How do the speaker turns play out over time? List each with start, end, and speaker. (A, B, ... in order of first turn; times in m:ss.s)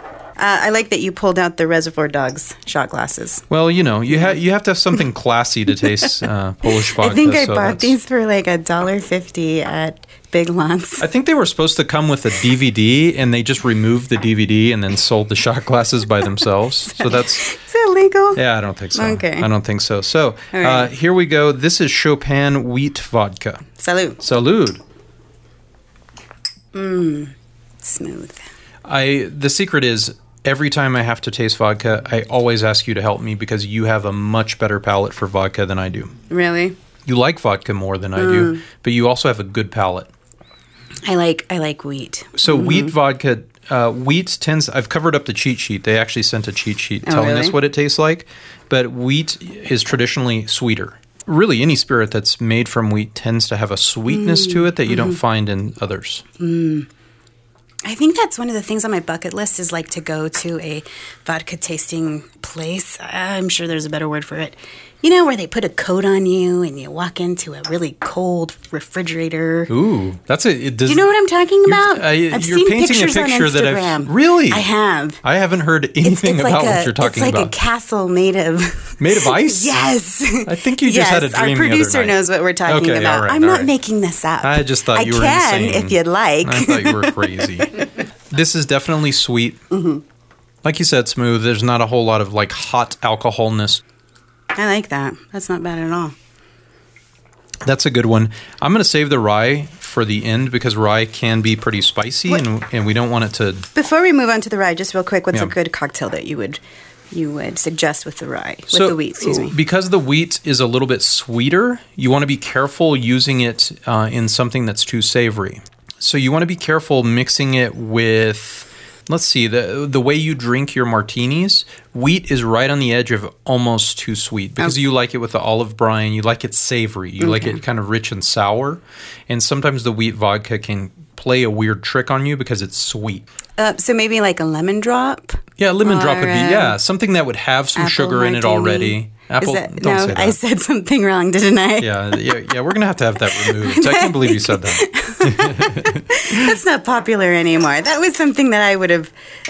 0:00.4-0:03.4 A
0:03.5-0:07.9 B
0:06.7-0:11.1 A
0:11.0-0:17.4 B
0:16.9-0:18.4 A
0:18.4-0:23.7 B
0:19.0-0:19.5 A
0:20.5-0:20.9 A
0:23.8-0:24.2 A
0:24.2-0:24.8 B
0:26.7-0:28.4 A
0:28.9-0:36.1 B
0:36.3-0:36.8 A
0:37.1-0:40.1 B
0:38.2-0:38.6 A
0:41.1-0:42.9 A
0:42.4-0:56.2 B
0:47.0-0:47.6 A
0:54.1-0:55.2 A
0:56.4-0:56.9 A
0:57.8-1:09.7 A
1:09.7-1:11.1 B
1:10.9-1:15.2 A
1:11.7-1:14.7 B
1:15.2-1:17.5 B
1:16.0-1:27.4 A
1:19.0-1:19.8 B
1:20.4-1:23.7 B
1:24.4-1:29.6 B
1:29.7-1:30.0 A
1:30.6-1:33.8 B
1:34.5-1:36.2 A
1:37.6-1:43.7 B
1:43.7-1:46.6 A
1:47.1-1:49.6 A
1:48.7-2:13.2 B
2:07.2-2:07.6 A
2:13.6-2:16.8 A
2:15.6-2:20.4 B
2:17.8-2:22.3 A
2:21.8-2:26.6 B
2:23.3-2:29.1 A